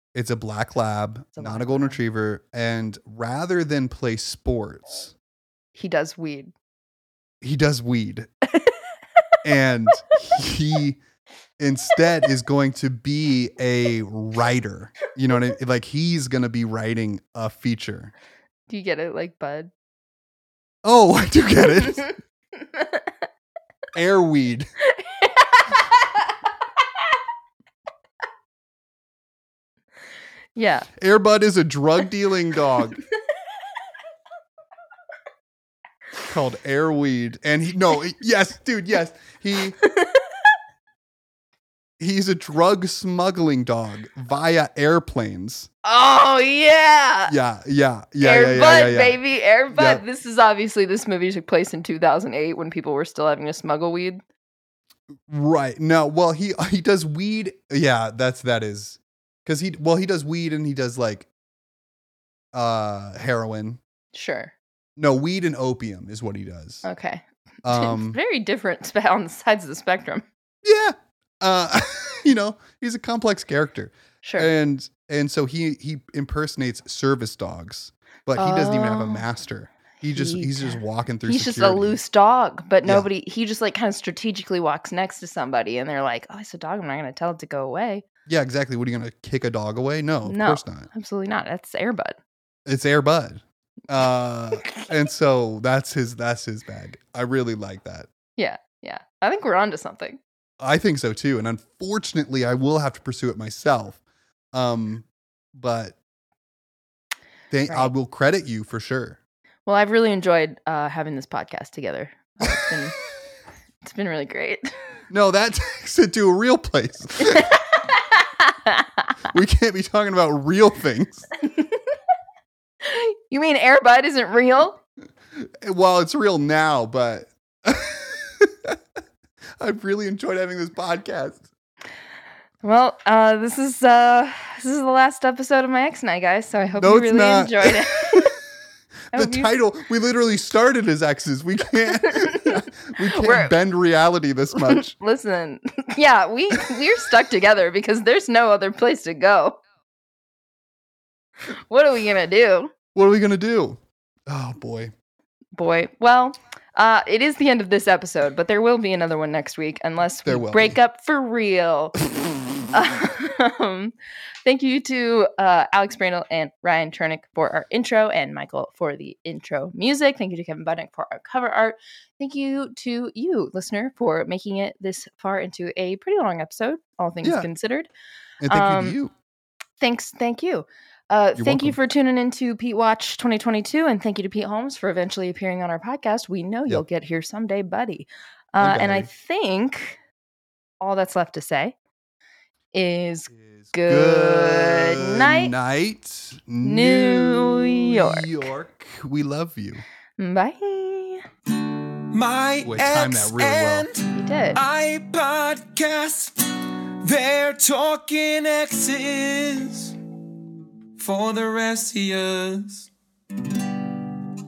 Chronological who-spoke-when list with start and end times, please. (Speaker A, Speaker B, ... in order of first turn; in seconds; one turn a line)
Speaker A: 0.1-5.1
Speaker B: 1.4-2.0
Speaker B: 5.8-6.5
Speaker A: 7.4-8.3
Speaker A: 9.4-11.0
Speaker A: 11.6-18.1
Speaker B: 18.7-19.7
Speaker A: 20.8-22.1
Speaker B: 22.7-23.1
Speaker A: 23.9-24.7
Speaker B: 24.9-26.2
Speaker B: 30.6-30.9
Speaker A: 31.0-33.0
Speaker A: 36.3-39.8
Speaker B: 39.8-40.4
Speaker A: 42.0-45.7
Speaker B: 45.8-47.3
Speaker A: 47.3-49.2
Speaker B: 48.2-54.2
Speaker A: 49.7-50.0
Speaker A: 55.3-61.3
Speaker A: 62.5-63.8
Speaker B: 64.1-64.5
Speaker A: 65.0-66.8
Speaker B: 66.8-70.2
Speaker A: 67.6-68.2
Speaker A: 70.6-82.0
Speaker B: 74.2-74.5
Speaker B: 78.4-79.2
Speaker B: 80.0-88.0
Speaker A: 88.3-90.9
Speaker B: 90.2-92.2
Speaker A: 92.7-98.1
Speaker B: 98.4-100.2
Speaker A: 100.6-104.0
Speaker A: 104.5-106.0
Speaker A: 107.5-109.2
Speaker B: 109.7-113.0
Speaker B: 113.8-114.8
Speaker A: 115.1-117.5
Speaker B: 117.3-118.8
Speaker A: 119.3-121.3
Speaker B: 122.8-124.8
Speaker A: 125.3-128.8
Speaker A: 129.6-131.5
Speaker B: 132.6-138.3
Speaker A: 136.8-138.3
Speaker A: 139.1-144.9
Speaker B: 139.1-139.5
Speaker B: 142.0-143.6
Speaker B: 144.7-149.6
Speaker B: 151.5-152.7
Speaker A: 152.9-154.9
Speaker B: 155.6-162.0
Speaker A: 160.2-160.8
Speaker B: 162.7-177.9
Speaker A: 177.2-177.5
Speaker A: 178.4-179.1
Speaker B: 178.5-179.0
Speaker B: 179.8-190.0
Speaker A: 181.4-181.8
Speaker A: 188.6-189.1
Speaker B: 190.8-191.8
Speaker B: 192.7-195.5
Speaker A: 193.3-199.8
Speaker B: 196.6-198.5
Speaker B: 200.2-201.2
Speaker C: 201.6-210.0
Speaker A: 202.6-203.9
Speaker B: 204.1-204.6
Speaker C: 211.0-212.9